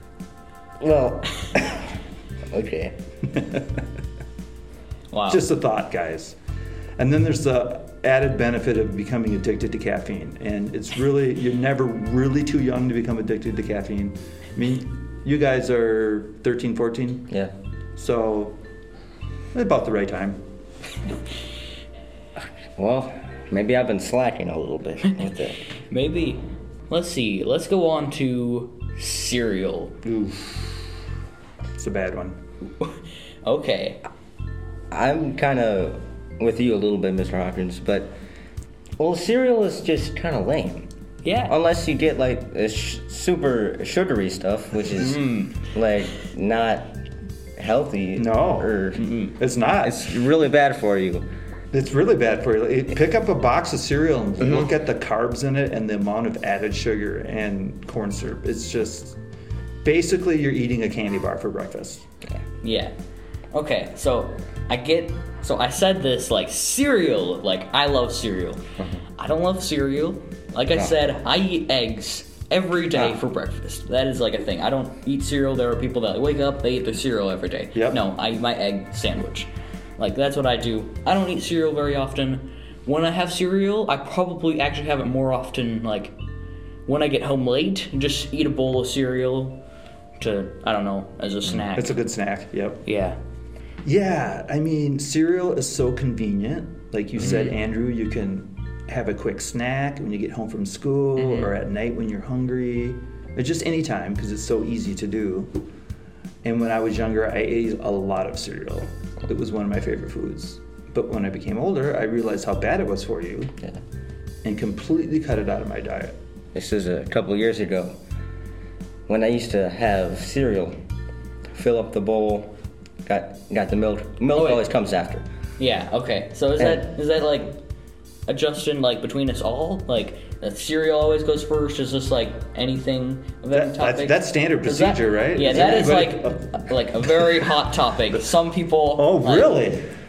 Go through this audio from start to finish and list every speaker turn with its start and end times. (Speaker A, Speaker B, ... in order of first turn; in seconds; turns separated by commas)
Speaker A: 0.8-2.0, Speaker A: 2.5-3.0, Speaker B: 5.1-5.5, Speaker C: 5.3-6.3, Speaker C: 7.0-17.3, Speaker C: 18.0-18.6, Speaker C: 19.5-20.4, Speaker A: 22.8-25.6, Speaker B: 25.9-29.9, Speaker C: 30.0-30.6, Speaker C: 31.7-32.4, Speaker B: 33.4-34.0, Speaker A: 34.9-38.1, Speaker A: 39.0-40.9, Speaker B: 41.2-41.5, Speaker A: 41.5-47.0, Speaker B: 45.0-45.6, Speaker A: 47.6-49.0, Speaker C: 48.1-50.2, Speaker B: 49.0-49.3, Speaker A: 49.8-51.3, Speaker C: 51.7-59.2, Speaker C: 59.8-62.0, Speaker B: 62.6-62.9, Speaker B: 63.5-68.6, Speaker B: 69.2-86.1, Speaker C: 77.7-78.0, Speaker B: 86.8-89.6, Speaker B: 90.2-92.0, Speaker C: 91.8-92.8, Speaker B: 92.8-93.2, Speaker C: 93.8-105.6, Speaker B: 97.2-97.5, Speaker B: 101.2-101.5, Speaker C: 106.4-113.5, Speaker C: 114.4-116.1, Speaker A: 116.5-118.0, Speaker A: 119.1-120.8, Speaker A: 121.5-122.5, Speaker A: 123.0-125.2, Speaker B: 124.3-124.6, Speaker B: 125.6-127.6, Speaker A: 126.6-126.9, Speaker B: 128.3-139.7, Speaker C: 133.5-137.4, Speaker A: 135.5-136.0, Speaker C: 139.0-139.9